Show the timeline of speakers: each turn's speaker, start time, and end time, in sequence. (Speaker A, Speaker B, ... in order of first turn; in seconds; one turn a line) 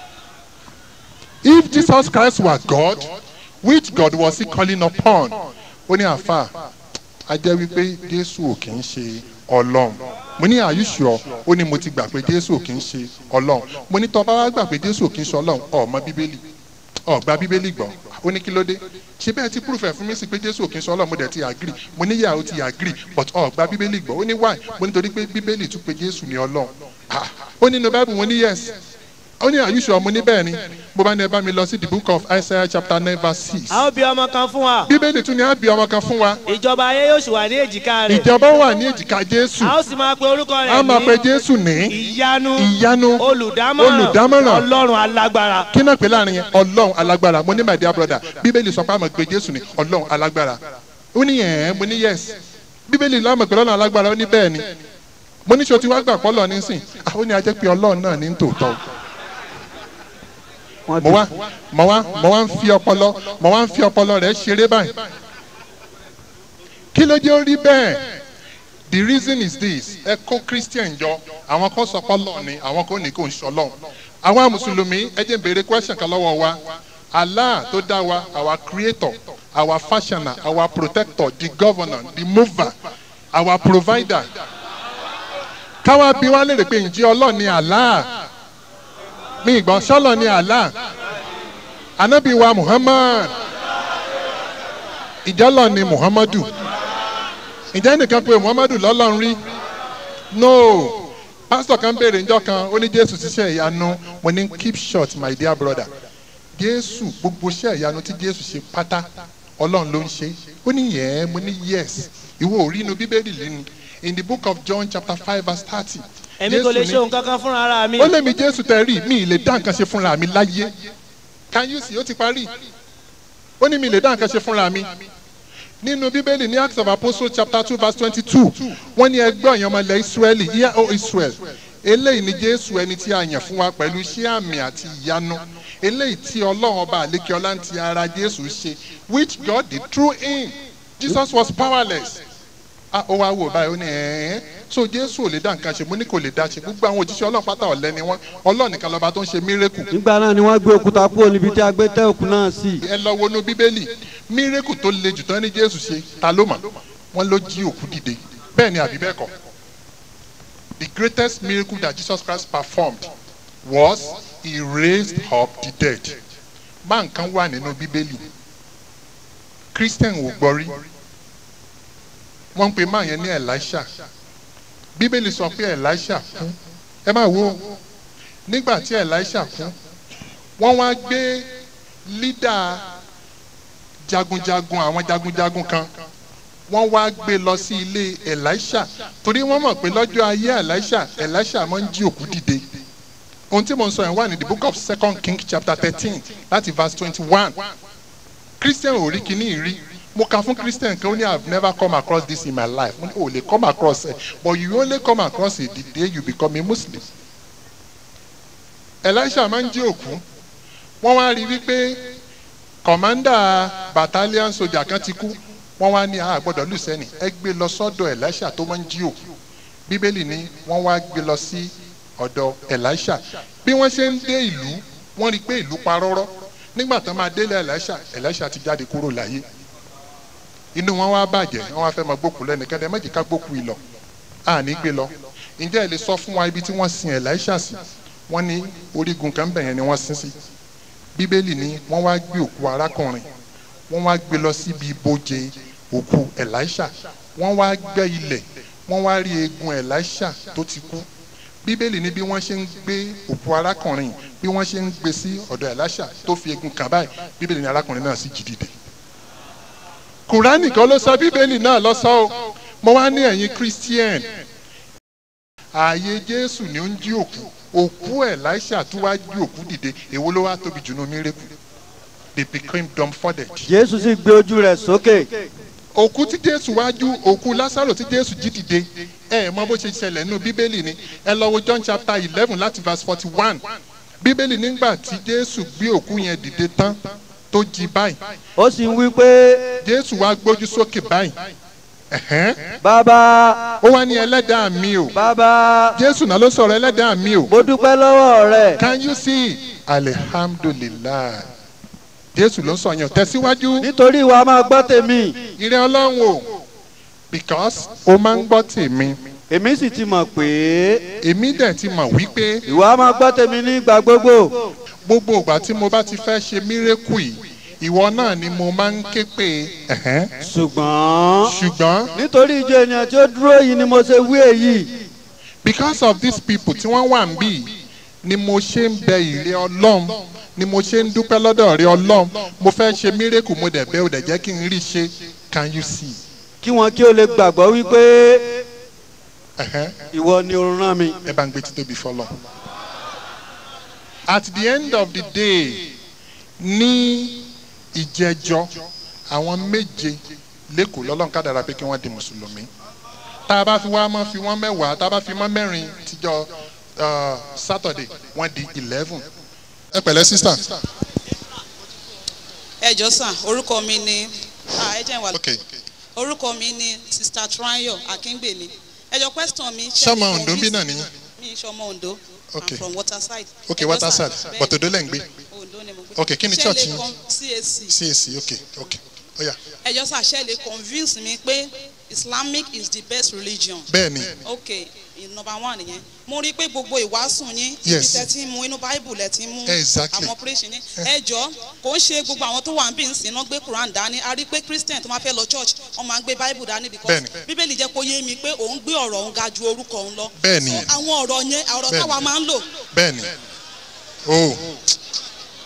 Speaker A: 1.4-6.5
Speaker A: 7.3-16.4
Speaker A: 17.1-28.7
Speaker A: 29.4-33.9
Speaker B: 33.7-34.9
Speaker A: 34.9-36.4
Speaker B: 36.5-38.3
Speaker A: 38.1-39.8
Speaker B: 39.6-41.2
Speaker A: 40.6-42.0
Speaker B: 41.9-45.7
Speaker A: 42.5-43.2
Speaker A: 43.8-44.6
Speaker A: 45.7-50.6
Speaker A: 51.1-52.4
Speaker A: 52.9-54.7
Speaker A: 55.5-58.8
Speaker C: 60.9-61.3
Speaker A: 61.0-65.1
Speaker A: 66.9-68.1
Speaker A: 68.9-82.8
Speaker A: 83.3-84.3
Speaker A: 85.8-88.1
Speaker A: 89.4-90.7
Speaker A: 92.0-93.3
Speaker A: 95.2-96.5
Speaker A: 97.7-99.4
Speaker A: 100.3-105.9
Speaker A: 106.5-109.1
Speaker A: 109.6-117.0
Speaker B: 116.4-118.1
Speaker A: 118.0-120.7
Speaker A: 121.5-122.5
Speaker A: 123.6-124.9
Speaker A: 125.8-142.2
Speaker A: 142.9-149.9
Speaker C: 149.9-152.8
Speaker A: 152.8-159.3
Speaker A: 160.8-163.1
Speaker A: 163.6-166.2
Speaker A: 166.8-168.3
Speaker A: 169.7-170.8
Speaker A: 172.6-173.9
Speaker A: 175.0-177.8
Speaker A: 178.5-179.8
Speaker A: 180.6-181.5
Speaker A: 182.1-182.9
Speaker A: 184.1-185.9
Speaker A: 186.7-192.7
Speaker A: 193.5-197.7
Speaker A: 198.6-207.1
Speaker A: 209.0-210.2
Speaker A: 211.0-212.1
Speaker A: 212.8-219.2
Speaker A: 219.9-229.4
Speaker A: 230.8-233.8
Speaker A: 234.4-237.8
Speaker A: 238.3-240.3
Speaker A: 241.1-243.3
Speaker A: 243.9-251.1
Speaker A: 251.6-258.7
Speaker A: 260.3-264.3
Speaker A: 265.7-271.5
Speaker A: 272.4-273.7
Speaker C: 273.7-275.4
Speaker A: 275.9-283.6
Speaker A: 284.2-287.0
Speaker A: 287.5-288.2
Speaker C: 288.6-289.8
Speaker A: 289.8-291.4
Speaker A: 292.1-292.8
Speaker C: 292.8-293.8
Speaker A: 293.8-295.2
Speaker C: 295.1-295.9
Speaker A: 295.9-297.5
Speaker C: 297.5-298.8
Speaker A: 298.8-301.5
Speaker A: 302.3-303.9
Speaker C: 303.8-305.4
Speaker A: 305.6-306.6
Speaker A: 307.3-309.2
Speaker C: 309.5-311.1
Speaker A: 311.2-312.6
Speaker C: 312.7-314.7
Speaker A: 315.1-320.4
Speaker C: 320.4-321.6
Speaker A: 321.4-322.1
Speaker C: 322.1-324.9
Speaker A: 325.6-336.2
Speaker C: 336.6-338.6
Speaker A: 339.6-340.0
Speaker C: 340.1-341.2
Speaker A: 341.2-342.4
Speaker A: 344.3-345.9
Speaker A: 346.6-352.7
Speaker A: 353.5-359.3
Speaker A: 359.9-360.8
Speaker D: 362.8-365.4
Speaker A: 365.3-365.6
Speaker D: 366.2-374.8
Speaker A: 369.9-371.1
Speaker A: 372.5-372.8
Speaker A: 373.7-375.3
Speaker D: 375.5-377.9
Speaker A: 376.2-377.0
Speaker A: 377.9-379.6
Speaker D: 379.8-383.9
Speaker A: 383.9-384.4
Speaker D: 384.4-402.7
Speaker A: 387.8-388.3
Speaker A: 389.7-390.3
Speaker A: 397.1-397.4
Speaker A: 400.4-400.9
Speaker A: 401.9-402.2
Speaker A: 402.9-403.3
Speaker A: 404.2-404.8